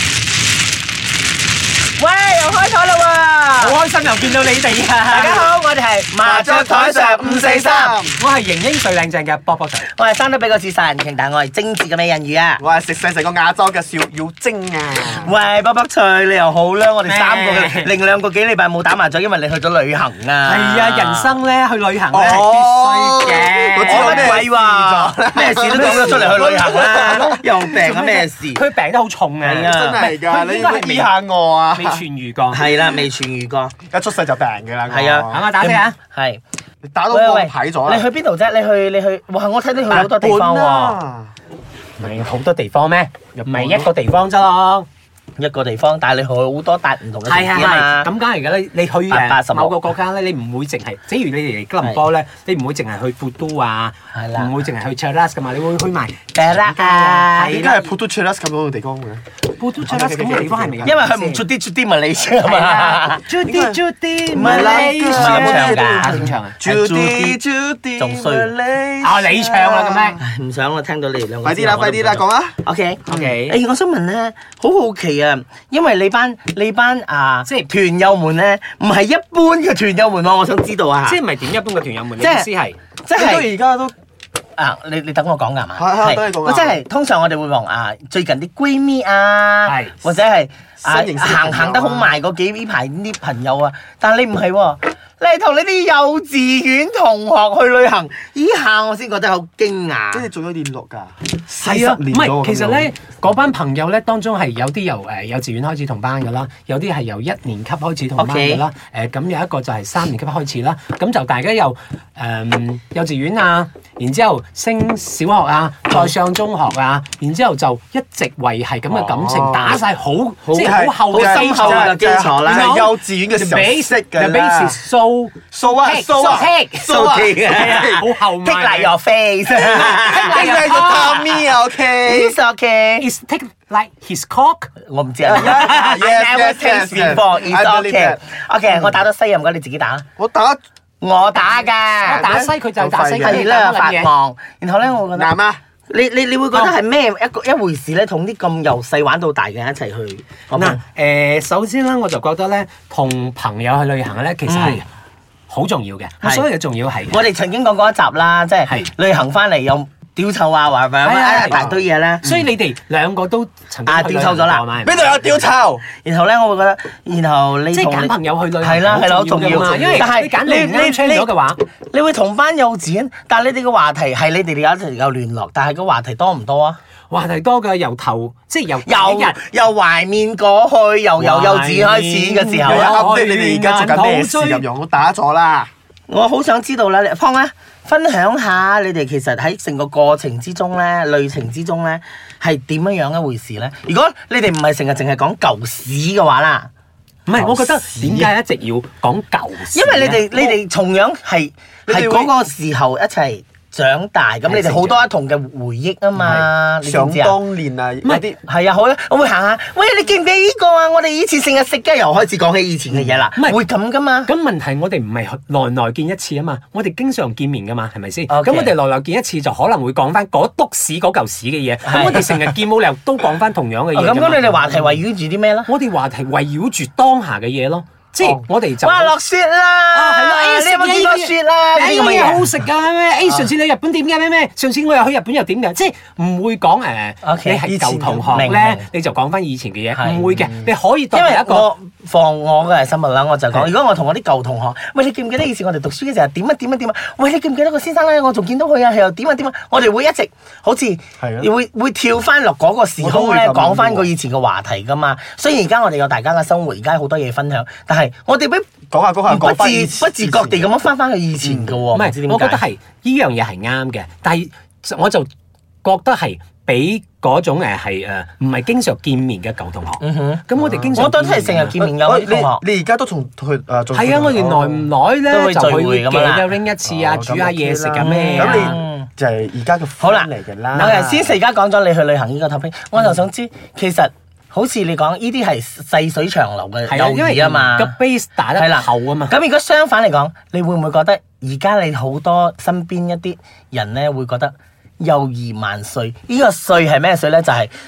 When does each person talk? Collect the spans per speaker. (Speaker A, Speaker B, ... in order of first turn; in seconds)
Speaker A: 2.0-3.8, 4.9-8.0, 9.9-12.6, 15.2-21.4, 23.8-28.6, 29.5-30.1, 32.5-33.8, 34.9-36.4, 37.1-41.0, 45.4-48.1, 49.1-49.8, 54.1-54.6, 56.3-57.8, 60.8-63.2, 64.3-67.4, 68.0-68.5, 70.2-81.2, 82.2-82.5, 83.0-83.5, 84.6-100.3, 108.1-108.6, 120.6-122.8, 126.9-130.6, 132.0-133.1, 134.8-140.1, 141.0-142.3, 143.2-145.3, 145.9-150.8, 154.5-154.8, 156.2-156.5, 157.1-162.2, 163.8-164.6, 165.9-176.8, 178.8-182.9, 186.1-196.7, 199.7-207.4, 208.4-214.3, 218.3-218.7, 221.8-222.5, 223.9-225.7, 228.8-232.5, 237.2-237.6, 238.3-238.8, 239.9-240.2, 241.1-258.7, 259.2-262.6, 270.0-272.6, 275.3-276.5, 277.9-279.1, 280.0-287.9, 288.6-297.7
Speaker B: 3.6-5.5, 8.2-9.9, 17.0-17.9, 20.4-24.4, 27.7-31.1, 31.8-32.6, 35.3-35.9, 42.0-44.9, 47.2-57.7, 59.5-61.5, 62.4-66.6, 69.0-70.2, 73.1-73.6, 77.5-77.7, 81.1-82.8, 89.6-89.9, 101.6-126.9, 127.6-128.9, 129.8-131.3, 133.0-134.7, 142.0-144.1, 150.5-154.9, 155.5-157.2, 161.0-161.6, 162.2-165.3, 167.7-171.6, 177.1-179.4, 181.2-184.6, 197.3-200.2, 204.4-205.1, 206.2-206.5, 213.3-213.6, 214.2-224.9, 225.7-229.2, 229.9-241.7, 261.9-265.3, 265.8-271.8, 273.9-278.8, 286.9-289.4
Speaker C: 6.2-8.2, 12.6-15.3, 22.1-27.5, 29.4-32.0, 33.9-35.5, 36.8-38.1, 39.9-41.3, 43.3-43.9, 57.4-59.2, 59.8-61.0, 63.5-63.8, 64.3-70.2, 71.4-72.6, 83.2-84.0, 85.8-86.8, 90.8-92.1, 100.1-102.9, 118.9-119.8, 120.5-124.8, 125.5-128.0, 129.6-132.3, 135.2-139.0, 140.2-140.6, 142.1-143.5, 145.1-145.6, 161.5-162.5, 164.8-165.8, 182.6-185.7, 197.3-198.3, 200.3-200.6, 201.9-202.3, 206.8-208.4, 237.6-238.6, 240.3-240.7, 251.2-251.5, 253.0-254.1, 258.9-260.7, 261.4-261.8, 270.6-271.1, 271.8-274.9, 276.8-281.3